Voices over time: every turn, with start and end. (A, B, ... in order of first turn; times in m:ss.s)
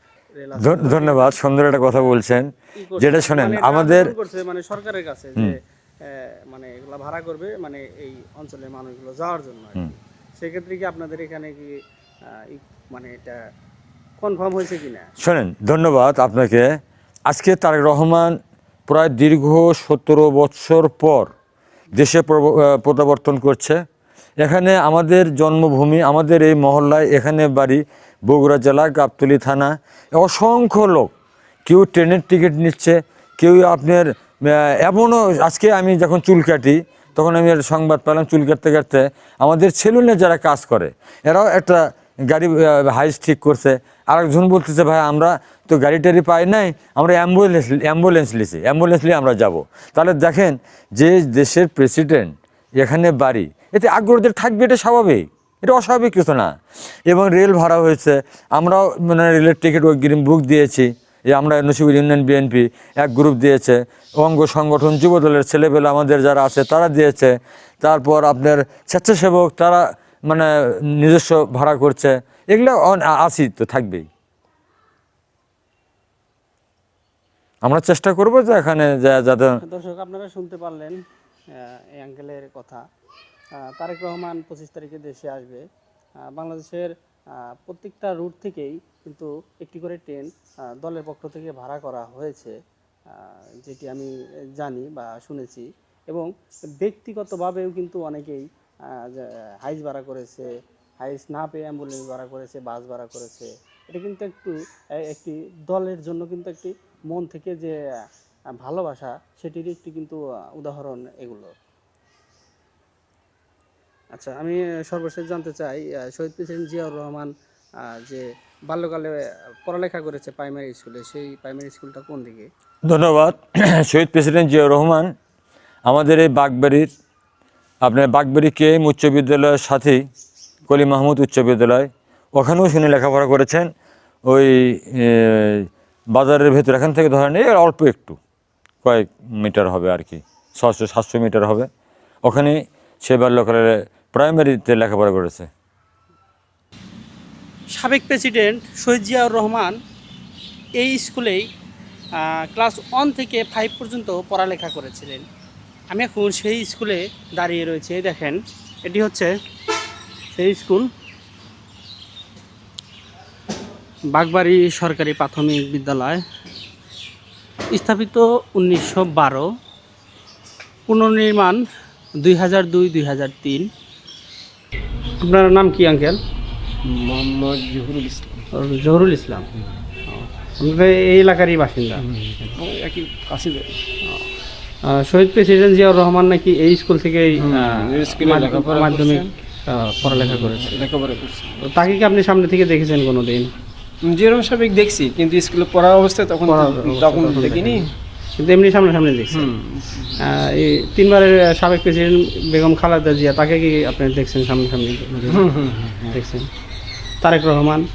0:00.4-0:01.4 A
0:00.6-0:04.1 B
0:02.8-0:11.7 A
0:12.3-0:13.4 A
0:14.2-0:15.1 A
0:15.2-0:16.7 B
0:17.3-0:18.3 B
0:18.9-0:21.3 B
0:22.0-0:23.8 B
0:24.4-0:31.1 B
0:31.7-0:41.8 B
0:42.3-0:56.5 B
0:57.1-1:10.5 B
1:11.0-1:14.0 B
1:17.6-1:19.5 B
1:19.6-1:21.0 A
1:21.5-1:22.8 A
1:23.8-1:25.6 A
1:26.3-1:30.3 A
1:30.8-1:32.5 A
1:33.1-1:36.3 A
1:36.8-1:40.5 A
1:41.0-1:44.5 A
1:45.1-1:47.7 A
1:48.6-1:51.5 A
1:54.1-1:57.3 A
1:57.8-1:59.1 A
1:59.7-2:02.5 A
2:02.9-2:05.1 B
2:05.8-2:06.9 B
2:07.8-2:10.0 B
2:10.7-2:13.7 B
2:14.3-2:18.2 B
2:18.8-2:21.7 B
2:22.2-2:25.5 B
2:27.7-2:29.7 A
2:30.8-2:31.4 A
2:32.5-2:35.2 A
2:35.9-2:39.3 A
2:40.3-2:40.9 A
2:44.1-2:46.2 A
2:47.7-2:49.4 A
2:50.9-2:51.6 A
2:52.2-2:53.7 A
2:55.2-2:56.2 A
2:56.8-2:58.4 C
2:58.5-2:59.5 A
3:00.1-3:02.0 A
3:02.0-3:03.8 C
3:04.9-3:10.8 A
3:07.4-3:09.3 C
3:10.0-3:11.9 C
3:11.6-3:13.5 A
3:14.1-3:17.9 C
3:16.4-3:17.8 A
3:18.4-3:19.5 A
3:19.3-3:20.2 C
3:20.2-3:25.4 A
3:25.2-3:26.2 C
3:26.1-3:26.5 A
3:27.2-3:27.8 A